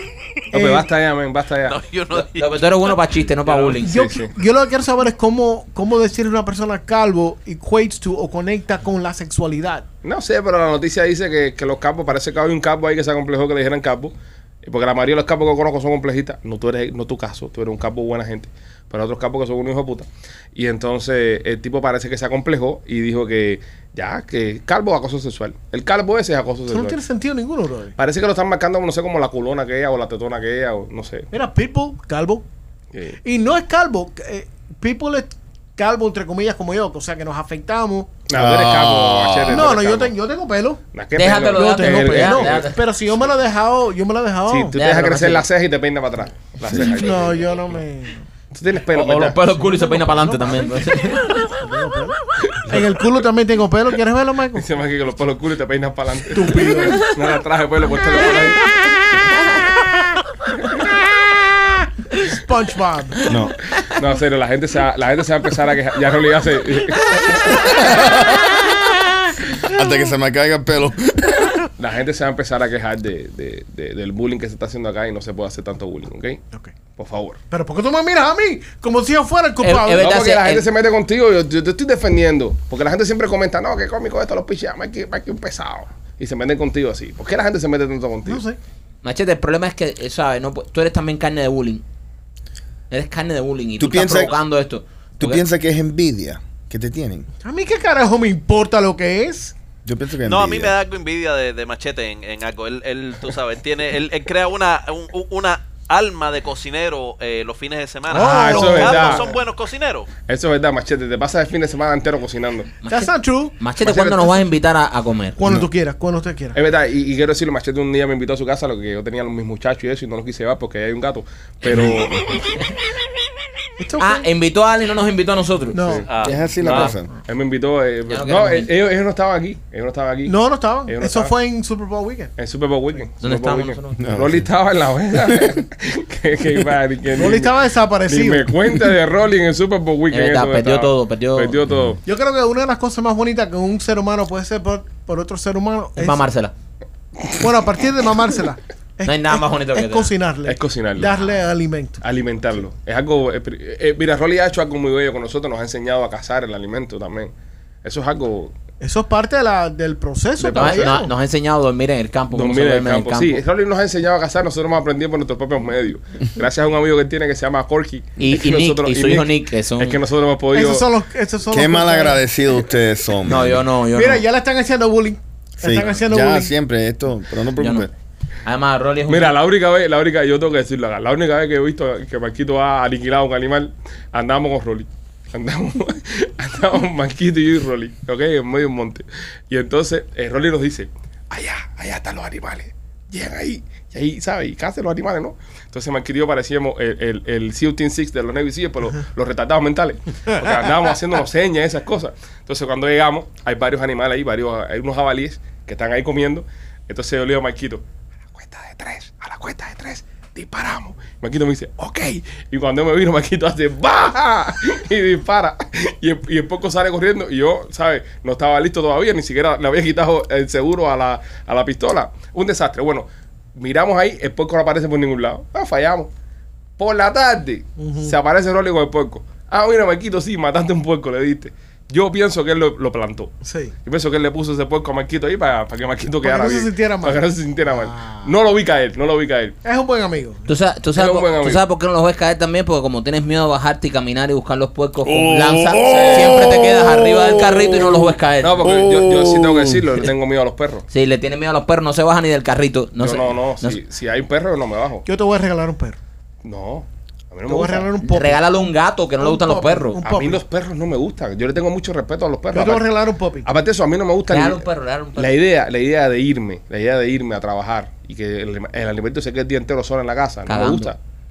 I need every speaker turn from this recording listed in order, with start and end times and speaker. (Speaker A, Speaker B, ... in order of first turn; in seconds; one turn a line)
Speaker A: 0.5-0.9
Speaker B: 0.5-1.8
Speaker C: 1.6-2.5
Speaker D: 2.3-4.0
Speaker B: 3.5-4.3
Speaker A: 3.9-9.9
Speaker B: 10.0-27.0
Speaker A: 26.7-27.9
Speaker B: 28.0-31.3
Speaker A: 31.3-32.4
Speaker B: 32.9-33.2
Speaker A: 33.2-38.2
Speaker B: 38.3-40.1
Speaker E: 38.3-39.7
Speaker A: 39.5-40.8
Speaker B: 40.9-42.6
Speaker D: 41.1-42.8
Speaker A: 41.5-44.7
Speaker B: 44.5-47.7
Speaker D: 44.7-45.5
Speaker A: 46.7-48.2
Speaker B: 48.5-49.4
Speaker D: 48.9-51.5
Speaker A: 49.9-50.8
Speaker A: 51.6-54.6
Speaker B: 52.6-53.0
Speaker B: 54.5-58.6
Speaker A: 56.3-57.1
Speaker A: 62.1-63.3
Speaker E: 63.3-63.5
Speaker B: 63.9-67.9
Speaker E: 67.9-68.6
Speaker E: 69.5-71.6
Speaker B: 71.8-76.4
Speaker B: 77.0-77.4
Speaker A: 77.5-80.0
Speaker D: 79.6-80.7
Speaker B: 80.0-88.4
Speaker A: 88.2-88.6
Speaker D: 89.0-91.8
Speaker D: 92.9-95.4
Speaker E: 93.8-94.4
Speaker E: 95.2-97.3
Speaker A: 97.4-99.5
Speaker E: 99.8-100.7
Speaker C: 100.2-110.1
Speaker A: 108.1-109.4
Speaker B: 108.2-109.3
Speaker B: 110.3-112.7
Speaker D: 112.8-115.4
Speaker A: 112.9-113.5
Speaker B: 113.8-114.4
Speaker A: 115.4-116.6
Speaker B: 116.5-122.3
Speaker D: 121.7-122.0
Speaker A: 123.8-124.3
Speaker D: 124.0-126.9
Speaker B: 125.7-126.1
Speaker A: 125.7-126.1
Speaker C: 126.1-126.9
Speaker E: 126.2-127.1
Speaker B: 126.6-130.3
Speaker D: 128.1-128.7
Speaker A: 130.2-132.3
Speaker B: 130.9-131.3
Speaker B: 132.4-142.0
Speaker D: 133.2-134.0
Speaker E: 134.0-134.5
Speaker A: 137.1-138.6
Speaker D: 140.1-141.6
Speaker E: 141.7-142.0
Speaker A: 142.1-146.3
Speaker D: 146.0-146.5
Speaker A: 147.3-152.0
Speaker D: 149.0-150.1
Speaker B: 150.4-151.1
Speaker B: 152.0-157.3
Speaker B: 157.8-158.5
Speaker A: 158.8-161.1
Speaker B: 160.4-161.0
Speaker D: 160.5-163.4
Speaker B: 162.3-170.9
Speaker D: 168.2-170.0
Speaker A: 170.5-172.2
Speaker E: 171.5-173.6
Speaker D: 173.2-174.2
Speaker A: 173.9-176.5
Speaker E: 175.6-177.9
Speaker D: 177.6-177.9
Speaker D: 178.4-179.3
Speaker B: 179.1-207.8
Speaker B: 208.3-226.1
Speaker B: 226.8-233.3
Speaker A: 227.8-228.2
Speaker A: 233.4-233.7
Speaker B: 233.8-239.5
Speaker A: 236.2-238.3
Speaker A: 239.6-240.5
Speaker D: 240.5-248.7
Speaker B: 240.9-241.6
Speaker E: 245.0-250.0
Speaker B: 245.8-246.5
Speaker B: 248.4-250.8
Speaker D: 250.9-253.8
Speaker B: 253.0-255.1
Speaker A: 255.1-256.0
Speaker B: 256.4-257.9
Speaker A: 257.5-258.4
Speaker D: 258.0-260.0
Speaker A: 259.2-260.4
Speaker B: 260.0-262.9
Speaker A: 262.5-263.5
Speaker B: 263.4-271.0
Speaker D: 264.3-265.4
Speaker D: 270.5-270.9